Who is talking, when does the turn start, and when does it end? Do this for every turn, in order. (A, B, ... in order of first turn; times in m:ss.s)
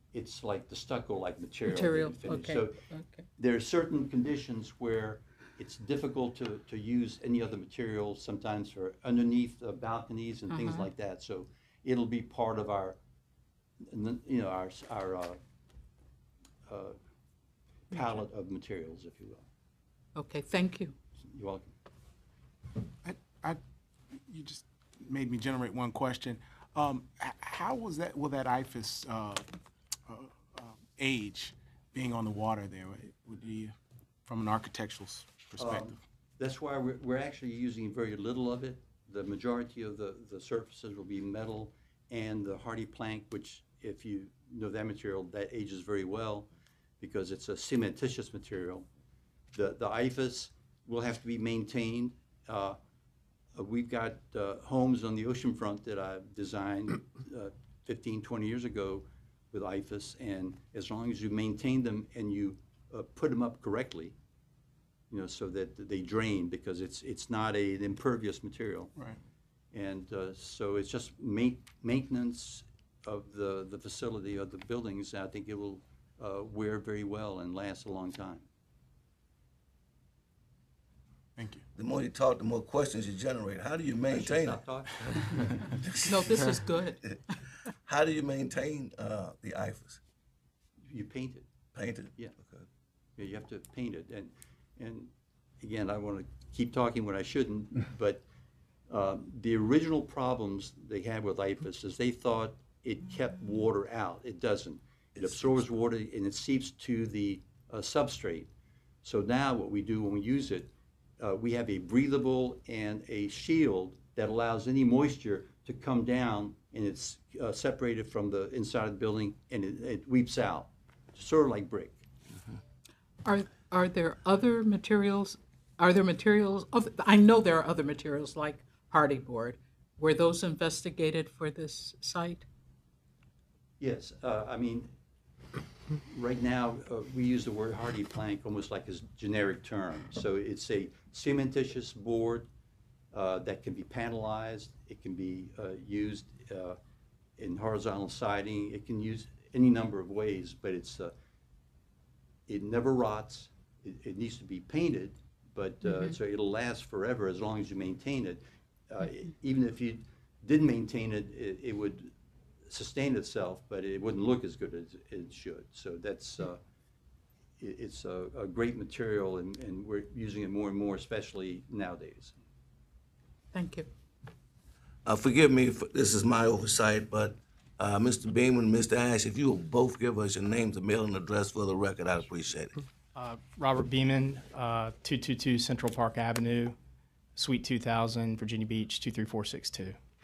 0:00.1-0:02.8 A
0:01.6-0:03.3 B
0:03.4-0:13.0 A
0:10.5-0:10.9 B
0:13.8-0:15.4 A
0:16.6-0:17.0 A
0:17.9-0:19.5 A
0:20.2-0:21.0 B
0:21.3-0:21.7 A
0:23.0-0:23.6 C
0:24.2-0:29.5 C
0:30.1-0:36.0 C
0:35.6-0:48.9 A
0:49.5-0:52.8 A
0:53.5-1:04.1 A
1:05.1-1:08.9 A
1:09.7-1:18.4 A
1:21.4-1:21.6 C
1:21.7-1:26.6 D
1:24.1-1:25.2 A
1:26.0-1:27.0 B
1:27.8-1:30.0 D
1:30.8-1:31.5 A
1:31.7-1:32.6 D
1:33.2-1:38.2 A
1:38.9-1:48.5 A
1:45.2-1:45.6 D
1:49.0-2:02.0 A
2:03.2-2:12.4 B
2:13.8-2:14.9 A
2:16.1-2:22.5 A
2:23.1-2:26.8 A
2:27.4-2:31.1 A
2:32.5-2:42.1 A
2:35.8-2:36.2 B
2:42.6-2:46.6 A
2:47.6-2:52.4 A
2:53.5-2:53.9 B
2:55.0-3:02.7 D
3:03.1-3:06.8 E
3:07.3-3:10.0 E